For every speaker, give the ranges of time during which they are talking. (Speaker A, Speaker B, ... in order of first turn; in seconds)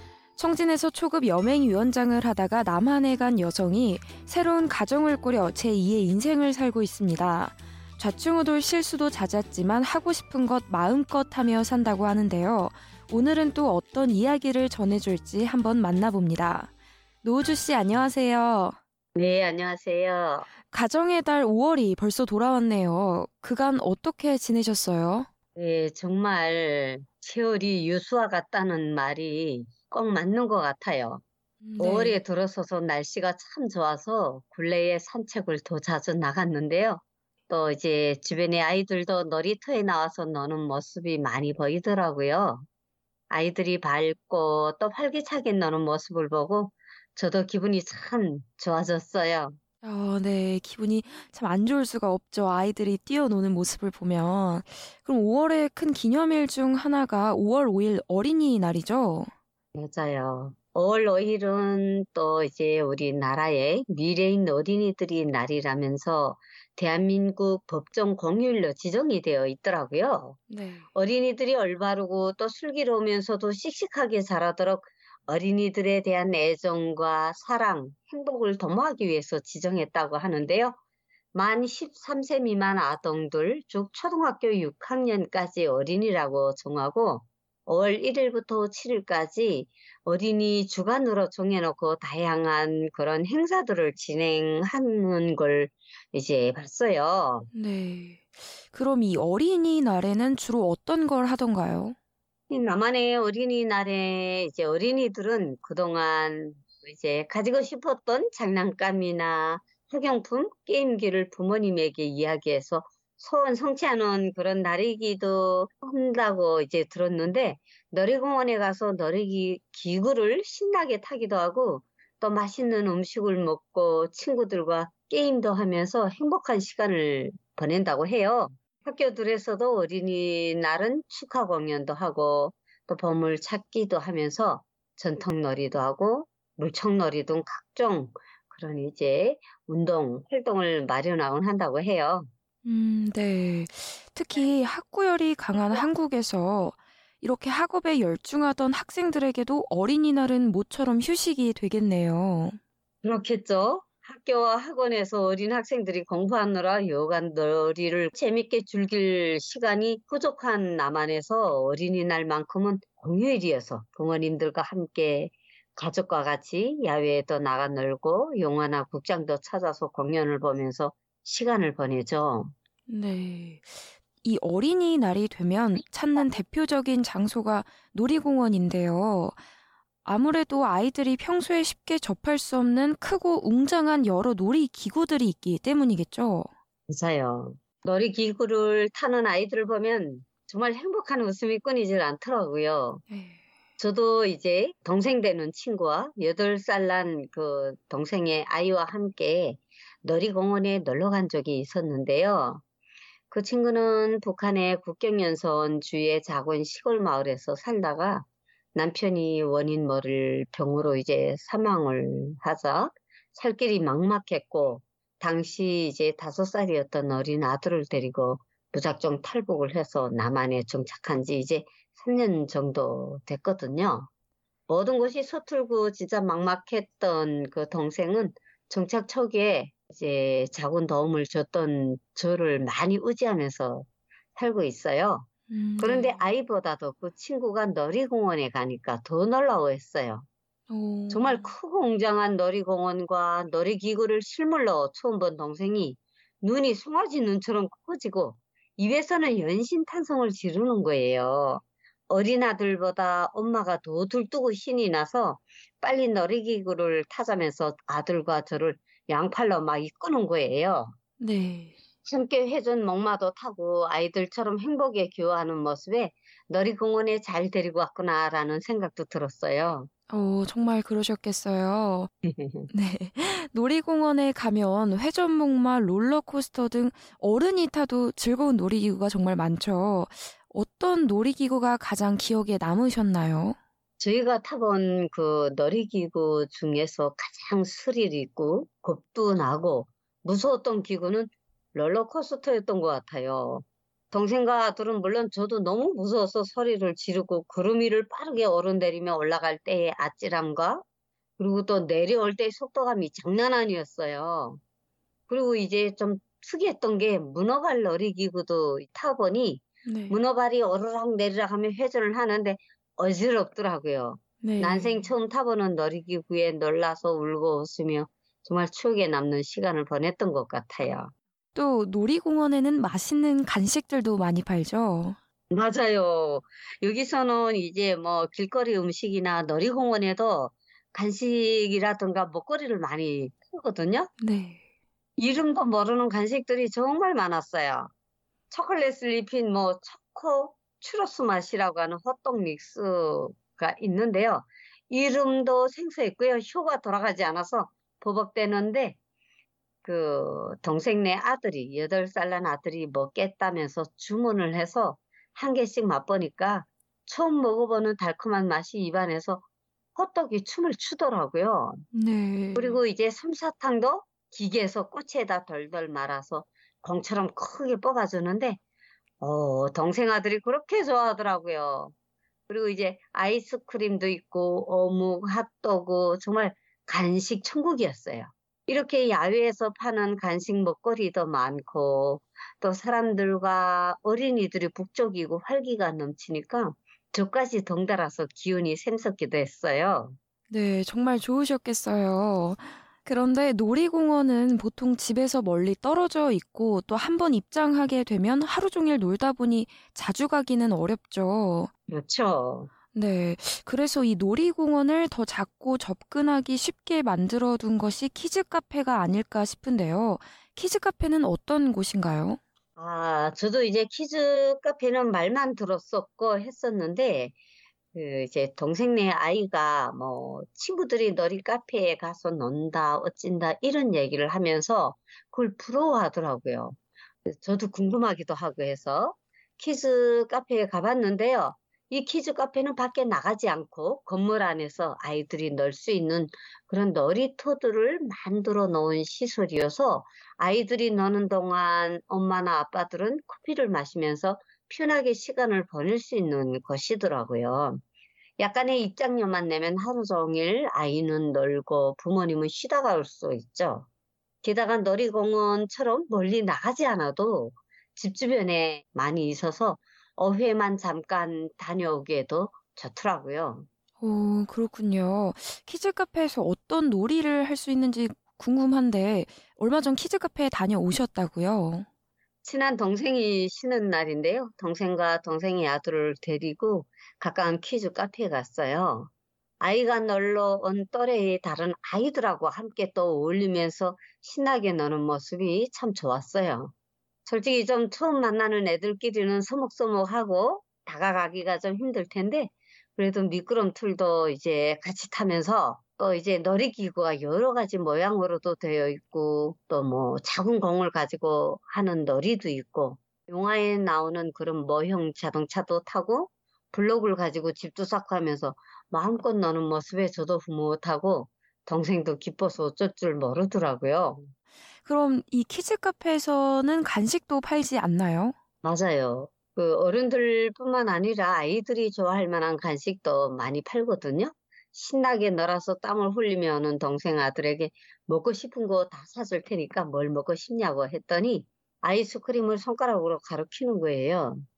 Speaker A: 0.4-16.7, 17.2-18.8, 20.7-25.3, 31.6-32.2, 49.8-59.3, 70.5-70.9, 97.5-102.0, 142.7-152.6, 172.9-179.4, 180.1-186.5, 193.1-193.4, 235.5-236.3, 240.7-241.5, 261.2-261.8, 270.1-272.1, 272.7-283.6, 309.9-310.2, 314.4-315.0, 321.6-325.2, 334.2-334.6, 361.9-362.8, 390.5-401.7, 402.9-412.4, 464.0-471.9, 514.9-518.4
Speaker B: 19.1-20.5, 25.6-31.2, 31.8-42.7, 43.3-49.6, 59.8-70.4, 70.9-80.8, 81.3-97.5, 102.5-142.3, 153.0-172.5, 186.9-193.0, 193.8-202.6, 203.3-224.1, 224.7-235.3, 235.8-240.3, 241.1-260.9, 262.0-269.9, 272.2-272.7, 284.0-300.8, 301.4-304.6, 305.3-321.1, 325.5-334.1, 335.2-337.9, 338.5-349.0, 349.8-359.4, 359.9-361.9, 362.6-368.6, 369.2-371.9, 372.5-390.2, 401.9-402.7, 412.8-417.3, 417.9-447.8, 448.4-453.9, 454.4-463.7, 472.4-486.7, 487.2-514.3, 518.6-534.4